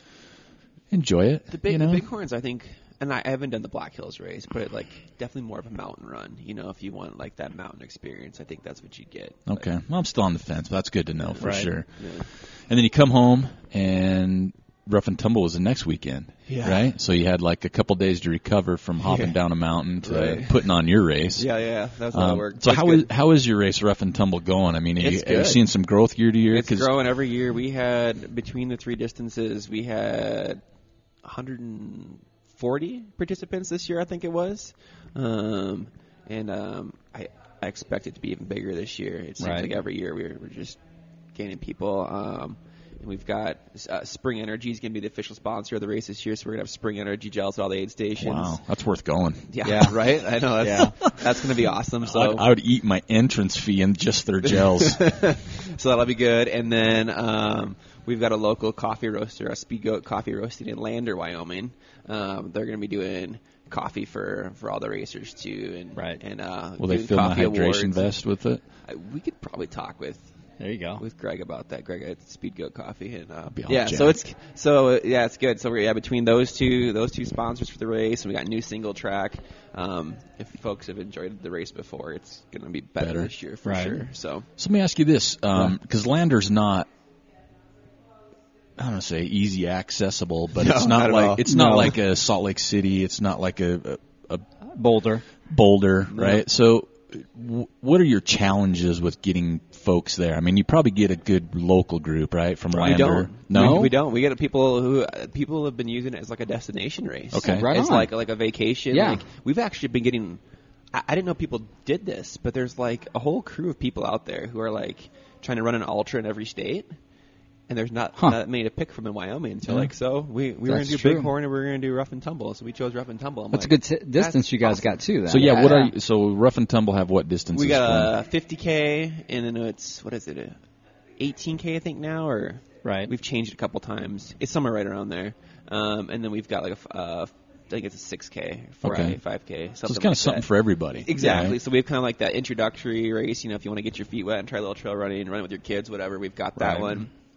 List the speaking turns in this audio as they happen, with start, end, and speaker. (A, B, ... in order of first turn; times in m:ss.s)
0:00.9-0:02.0 A
0:01.5-0:09.6 B
0:09.5-0:21.5 A
0:11.2-0:12.3 B
0:11.4-0:11.7 C
0:16.5-0:16.9 B
0:19.0-0:19.4 B
0:20.0-0:20.7 B
0:21.4-0:23.1 B
0:22.1-0:26.9 A
0:25.0-0:25.6 B
0:26.5-0:30.6 B
0:31.2-0:40.8 B
0:39.4-0:39.7 C
0:41.3-0:48.6 B
0:48.2-0:49.5 A
0:49.5-0:52.4 B
0:49.6-0:50.0 C
0:50.6-0:51.0 C
0:52.0-0:55.0 A
0:54.4-1:08.1 B
1:06.8-1:08.6 A
1:08.8-1:10.3 B
1:10.6-1:11.0 C
1:11.0-1:24.5 B
1:13.5-1:14.2 A
1:23.0-1:23.3 A
1:23.6-1:24.0 C
1:24.6-1:26.9 A
1:28.8-1:34.4 A
1:30.5-1:31.7 B
1:31.5-1:31.9 C
1:34.7-1:35.2 C
1:35.5-1:44.0 A
1:36.1-1:36.4 B
1:42.7-1:50.4 B
1:43.5-1:43.9 C
1:47.3-1:47.7 A
1:47.4-1:48.1 C
1:48.9-1:49.2 C
1:50.9-1:56.9 B
1:57.7-2:05.8 B
2:00.7-2:01.3 C
2:03.5-2:05.9 C
2:05.3-2:08.1 A
2:07.5-2:10.6 B
2:11.2-2:20.5 B
2:12.8-2:13.1 C
2:18.8-2:19.2 A
2:19.8-2:21.6 A
2:21.0-2:27.1 B
2:21.2-2:21.5 C
2:26.6-2:27.1 C